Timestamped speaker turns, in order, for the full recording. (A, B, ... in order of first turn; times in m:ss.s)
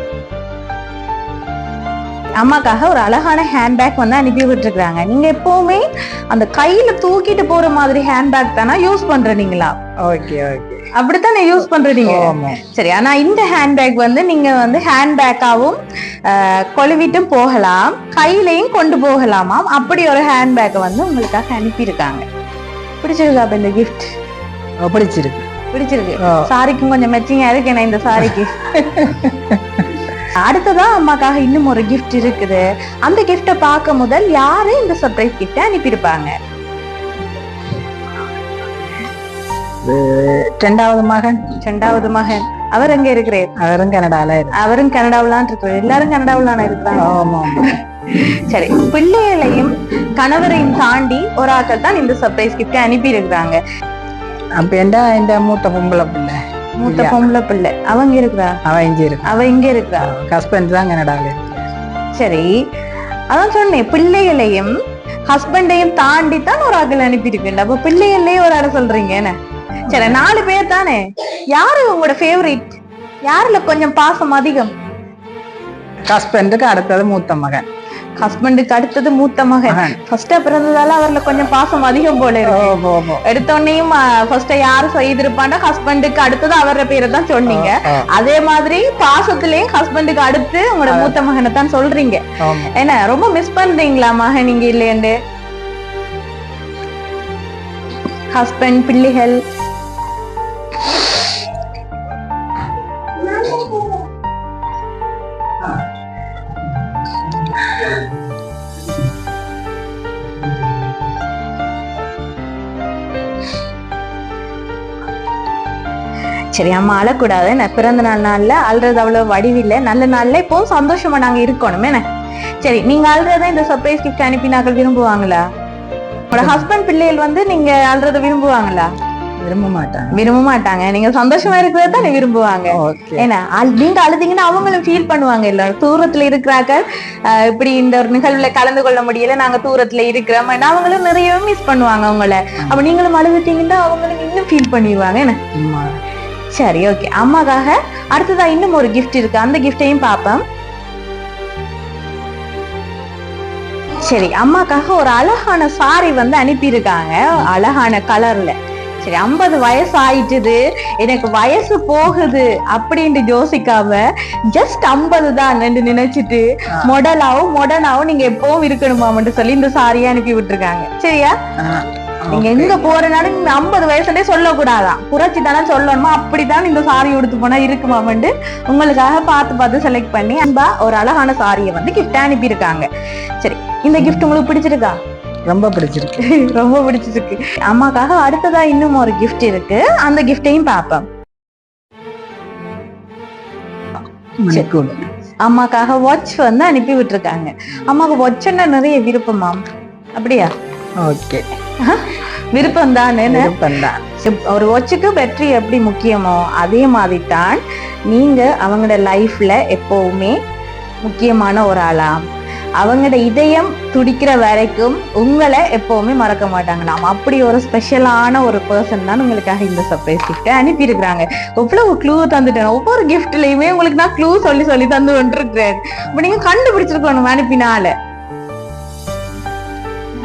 0:02.4-0:09.7 A
0:10.0-0:10.9 B
0:10.9-0:22.2 A
0:12.0-0:12.6 B
0:23.0-0:24.1 A
0:24.8-0:25.4 B
0:25.7-0:28.5 A
0:26.2-0:26.4 B
0:28.2-0:29.9 B
0:30.2-0:36.3 A
0:39.8-0:41.4 B
0:41.6-0:43.5 A
0:43.6-0:44.6 B
0:44.5-0:53.6 A
0:47.0-0:47.7 B
0:54.6-0:57.2 B
0:56.8-0:58.6 A
0:58.6-0:59.3 B
0:59.2-1:00.1 A
1:00.0-1:01.7 B
1:02.2-1:02.5 A
1:03.3-1:04.8 A
1:05.3-1:09.3 A
1:09.9-1:11.0 A
1:09.9-1:10.2 B
1:11.5-1:12.8 A
1:13.3-1:14.7 A
1:16.1-1:17.7 B
1:18.2-1:35.1 A
1:19.7-1:20.0 B
1:22.4-1:23.2 B
1:27.5-1:28.1 B
1:30.9-1:31.2 B
1:32.4-1:32.7 B
1:38.3-1:39.4 A
1:40.9-1:41.2 A
1:43.2-1:44.0 A
1:56.5-2:02.0 A
2:02.6-2:05.4 A
2:06.3-2:08.9 A
2:06.3-2:06.7 B
2:09.4-2:10.2 B
2:10.1-2:25.4 A
2:12.7-2:13.3 B
2:25.5-2:26.0 B
2:26.5-2:30.4 A
2:34.0-2:51.4 A
2:51.6-2:52.8 B
2:52.3-3:02.9 A
3:03.4-3:05.0 A
3:04.0-3:04.3 B
3:05.5-3:06.2 B
3:06.2-3:11.0 A
3:14.4-3:15.0 B
3:15.4-3:19.6 A
3:20.2-3:20.5 A
3:21.0-3:21.4 B
3:21.8-3:23.6 A
3:23.2-3:24.1 B
3:24.2-3:30.4 A
3:31.0-3:32.2 A
3:32.8-3:47.9 A
3:46.1-3:46.4 B